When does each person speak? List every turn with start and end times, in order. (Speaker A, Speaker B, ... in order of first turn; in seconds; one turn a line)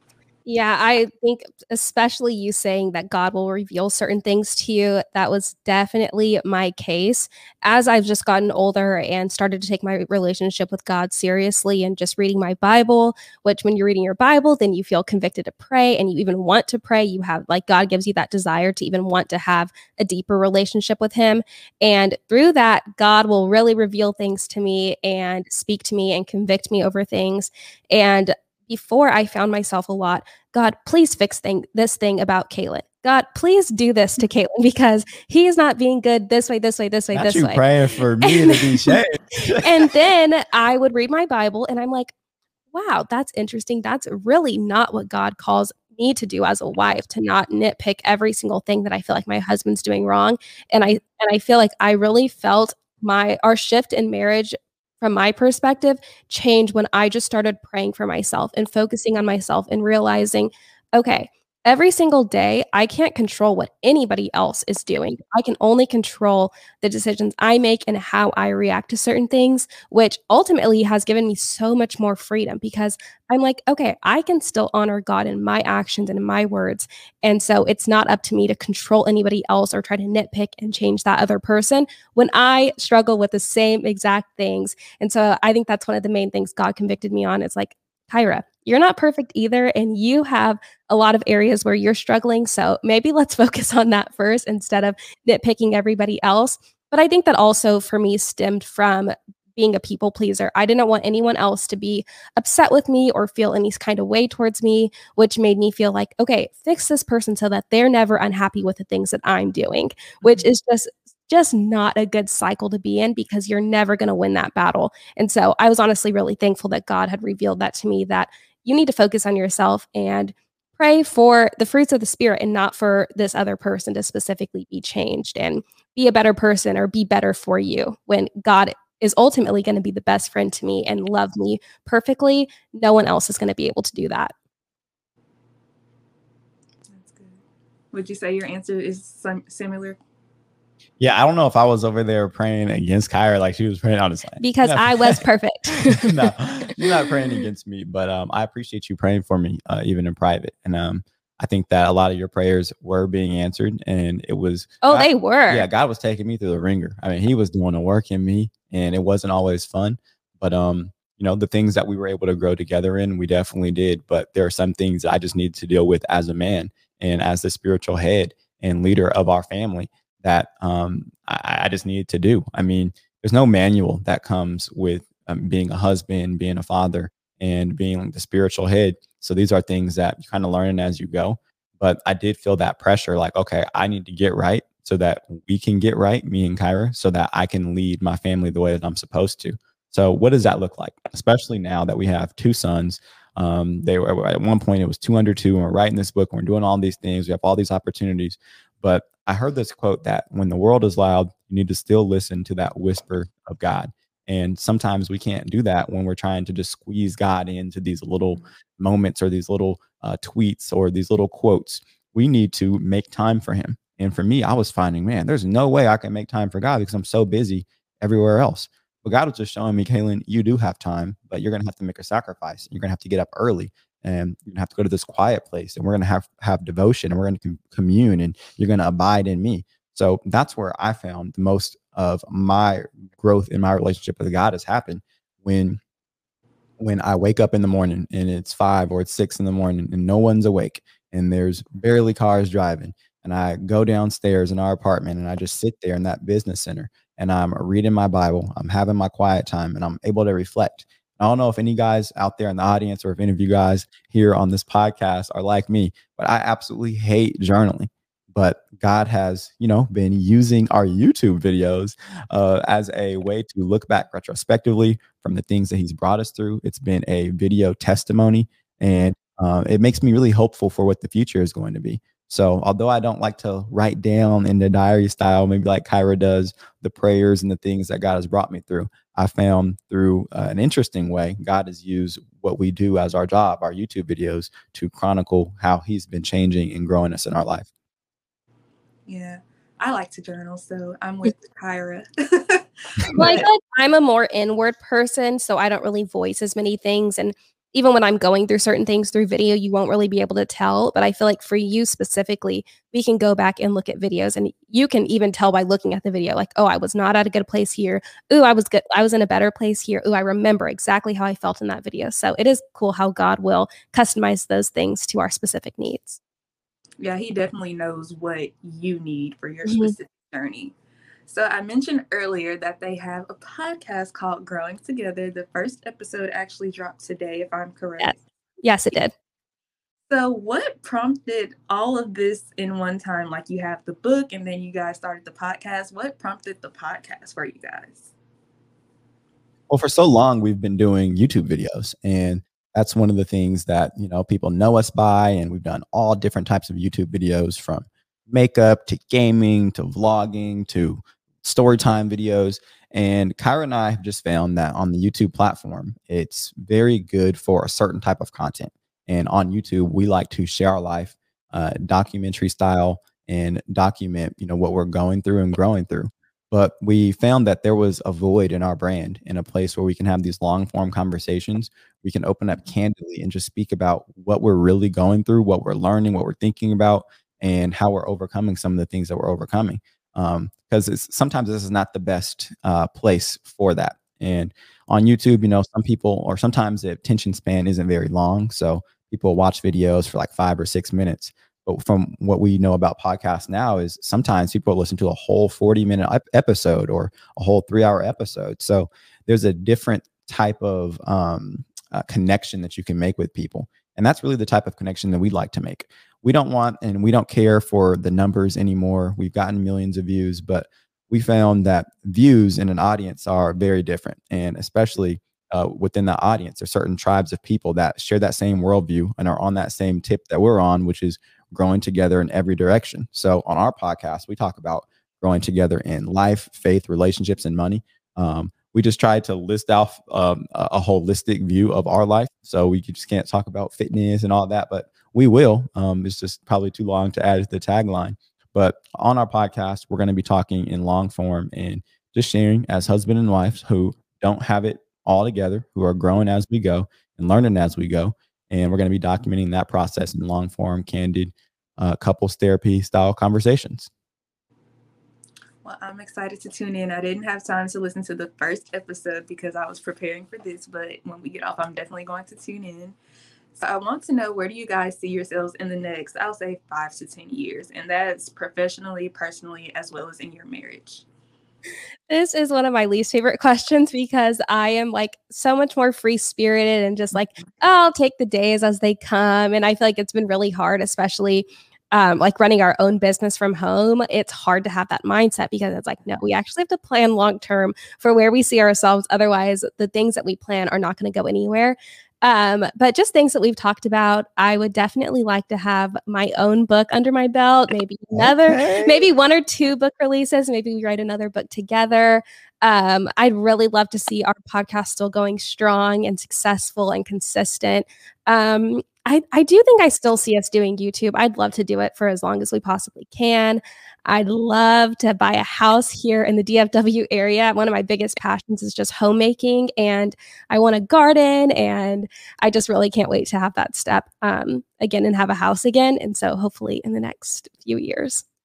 Speaker A: 0.5-37.6
Speaker B: 37.1-39.9
Speaker A: 38.2-42.1
Speaker A: 42.7-134.3
Speaker C: 136.9-137.4
Speaker C: 137.9-140.0
Speaker B: 141.0-145.2
Speaker A: 144.4-146.3
Speaker B: 145.9-235.8
Speaker A: 154.8-155.7
Speaker B: 236.8-287.7
Speaker C: 289.1-293.5
Speaker A: 293.1-316.2
Speaker C: 317.0-320.7
Speaker A: 319.6-319.9
Speaker C: 321.3-328.2
Speaker A: 328.0-329.1
Speaker C: 330.1-338.1
Speaker B: 339.7-453.9
Speaker C: 455.6-462.9
Speaker C: 463.5-471.1
Speaker A: 472.1-528.2
Speaker B: 498.1-499.1